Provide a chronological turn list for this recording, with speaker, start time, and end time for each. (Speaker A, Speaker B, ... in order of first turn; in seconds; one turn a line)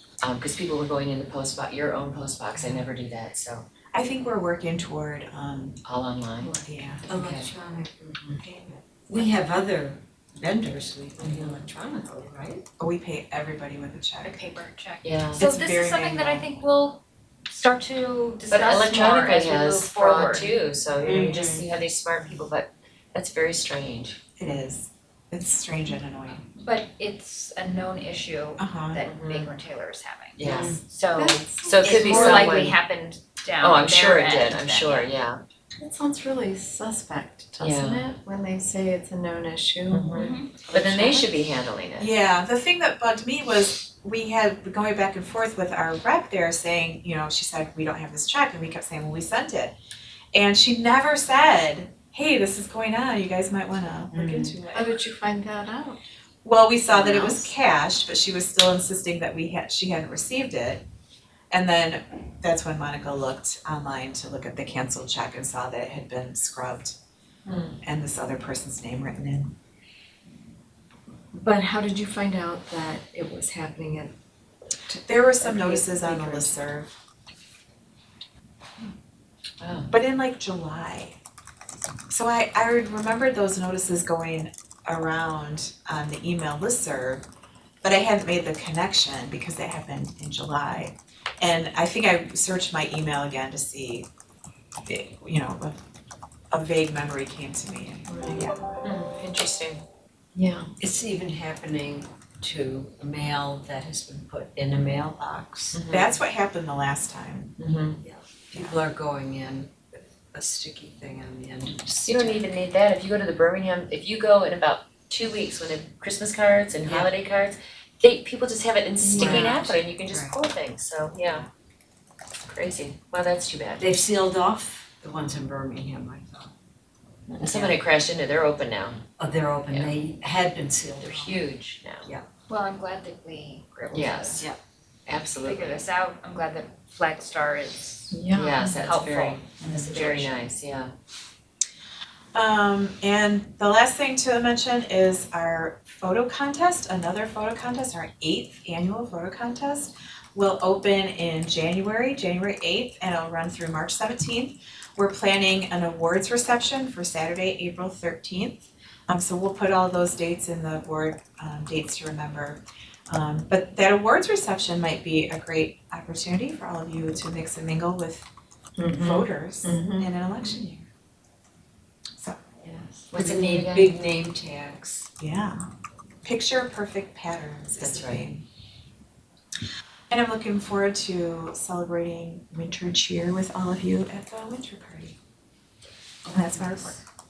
Speaker A: 0.2-3.6
Speaker B: 2.5-2.8
Speaker B: 3.9-5.8
Speaker A: 5.8-7.5
Speaker B: 6.6-7.1
Speaker C: 7.1-12.7
Speaker A: 11.2-11.6
Speaker B: 12.8-14.3
Speaker D: 14.2-20.6
Speaker A: 15.0-15.4
Speaker B: 15.3-16.5
Speaker A: 18.5-24.2
Speaker B: 21.0-21.6
Speaker C: 21.1-21.4
Speaker B: 24.4-26.4
Speaker D: 26.6-35.1
Speaker B: 28.6-29.0
Speaker A: 29.1-29.5
Speaker A: 30.4-30.8
Speaker C: 30.4-30.8
Speaker E: 31.1-32.4
Speaker A: 31.6-32.8
Speaker C: 31.8-32.1
Speaker A: 33.6-35.4
Speaker E: 35.8-40.9
Speaker A: 37.6-38.1
Speaker A: 39.9-42.1
Speaker D: 40.1-40.7
Speaker B: 42.0-49.7
Speaker B: 50.3-54.7
Speaker D: 54.3-55.0
Speaker E: 54.7-56.0
Speaker B: 56.4-60.8
Speaker B: 61.5-67.0
Speaker A: 67.5-67.8
Speaker B: 67.8-69.5
Speaker E: 71.3-74.1
Speaker B: 75.0-76.9
Speaker E: 75.7-76.3
Speaker A: 79.6-79.9
Speaker B: 79.9-81.2
Speaker B: 82.1-87.2
Speaker B: 87.8-94.1
Speaker B: 94.8-95.8
Speaker B: 96.5-98.7
Speaker E: 98.1-98.4
Speaker A: 98.8-99.8
Speaker E: 100.3-100.7
Speaker C: 100.8-105.8
Speaker A: 105.7-106.1
Speaker B: 105.9-107.5
Speaker A: 107.6-108.0
Speaker C: 108.0-112.5
Speaker A: 112.0-121.5
Speaker C: 116.8-117.1
Speaker E: 119.1-119.7
Speaker C: 119.1-120.4
Speaker A: 122.5-123.9
Speaker C: 123.8-126.5
Speaker A: 127.3-129.0
Speaker C: 127.4-127.8
Speaker C: 129.2-131.4
Speaker A: 129.7-129.9
Speaker A: 131.0-132.1
Speaker D: 132.5-134.4
Speaker A: 133.9-134.5
Speaker A: 135.1-135.8
Speaker D: 135.4-140.3
Speaker E: 138.2-138.8
Speaker A: 138.3-140.9
Speaker B: 142.3-168.3
Speaker E: 168.8-169.2
Speaker B: 168.9-170.9
Speaker C: 172.7-175.1
Speaker A: 173.1-173.9
Speaker B: 175.2-175.7
Speaker B: 176.2-178.4
Speaker A: 177.8-178.2
Speaker B: 180.1-185.2
Speaker A: 186.3-187.0
Speaker B: 186.3-187.0